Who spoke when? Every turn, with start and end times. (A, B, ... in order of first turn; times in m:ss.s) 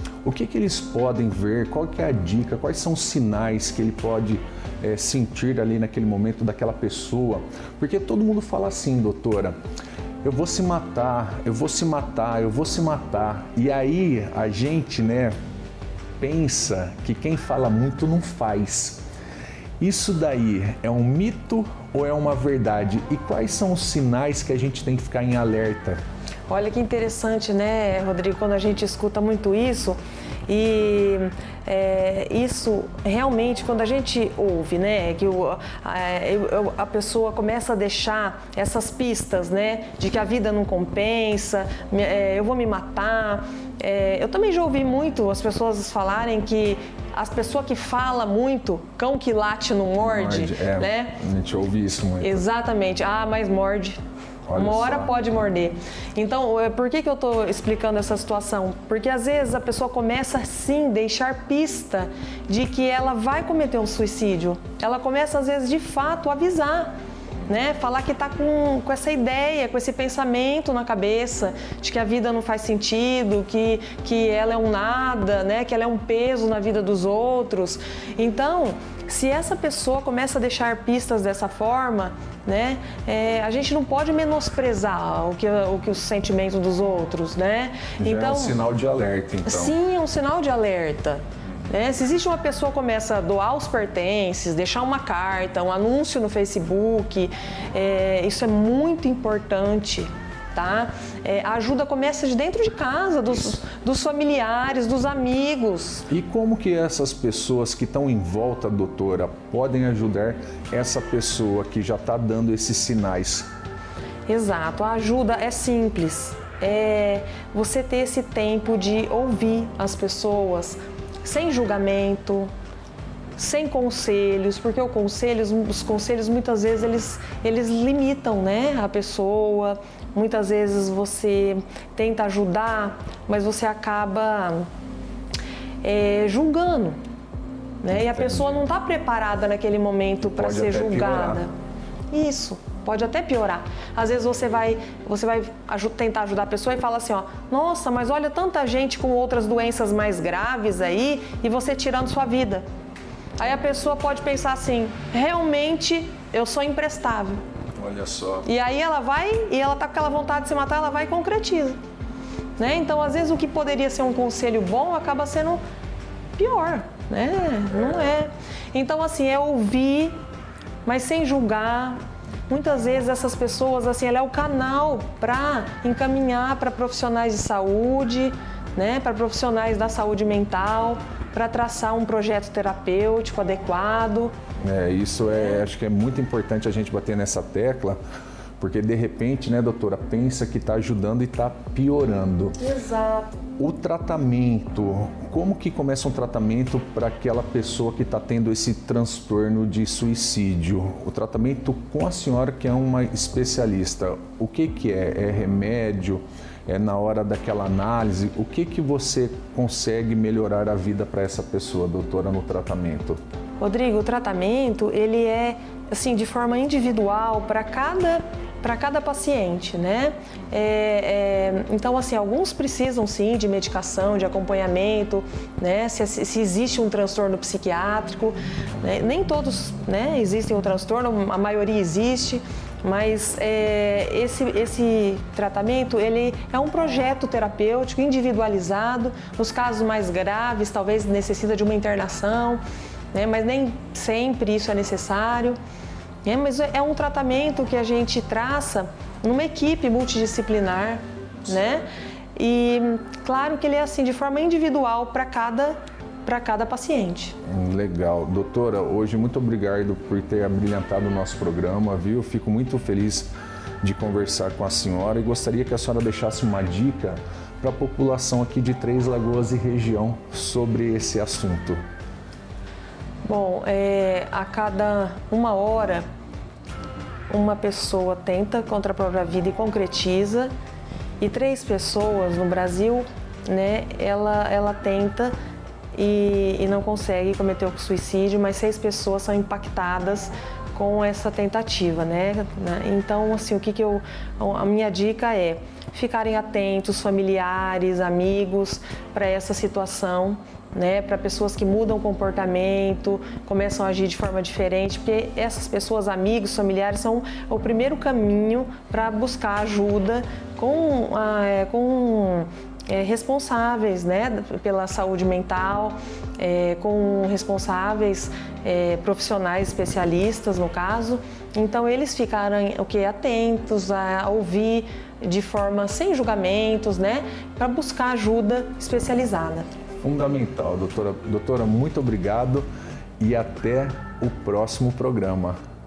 0:00.2-0:09.6 A
0:10.2-0:15.3 A
0:16.2-0:19.0 A
0:19.8-0:26.0 A
0:26.5-0:51.2 B
0:50.0-0:52.4 A
0:52.2-0:54.0 B
0:54.5-0:55.1 A
0:54.5-1:06.9 B
1:07.5-1:28.6 B
1:28.0-1:29.7 A
1:29.4-1:46.0 B
1:46.1-1:53.5 A
1:54.3-2:02.5 B
2:03.4-2:14.7 B
2:15.8-2:17.0 B
2:17.8-2:21.5 B
2:18.1-2:18.4 A
2:20.2-2:21.4 A
2:22.1-2:32.6 B
2:33.4-2:37.4 B
2:37.8-2:38.5 A
2:38.4-2:41.8 B
2:42.6-2:45.6 B
2:46.4-2:50.1 B
2:50.8-3:04.3 B
3:04.6-3:08.0 A
3:05.3-3:05.6 B
3:08.6-3:12.6 A
3:12.6-3:13.4 B
3:13.6-3:33.2 A
3:33.6-4:02.6 B
4:03.1-4:05.6 B
4:06.2-4:17.3 B
4:17.4-4:23.3 A
4:23.8-4:31.8 A
4:33.2-4:36.0 B
4:37.3-4:40.5 B
4:41.2-4:45.3 B
4:45.9-5:29.7 B
5:30.0-5:32.7 A
5:33.2-5:35.6 A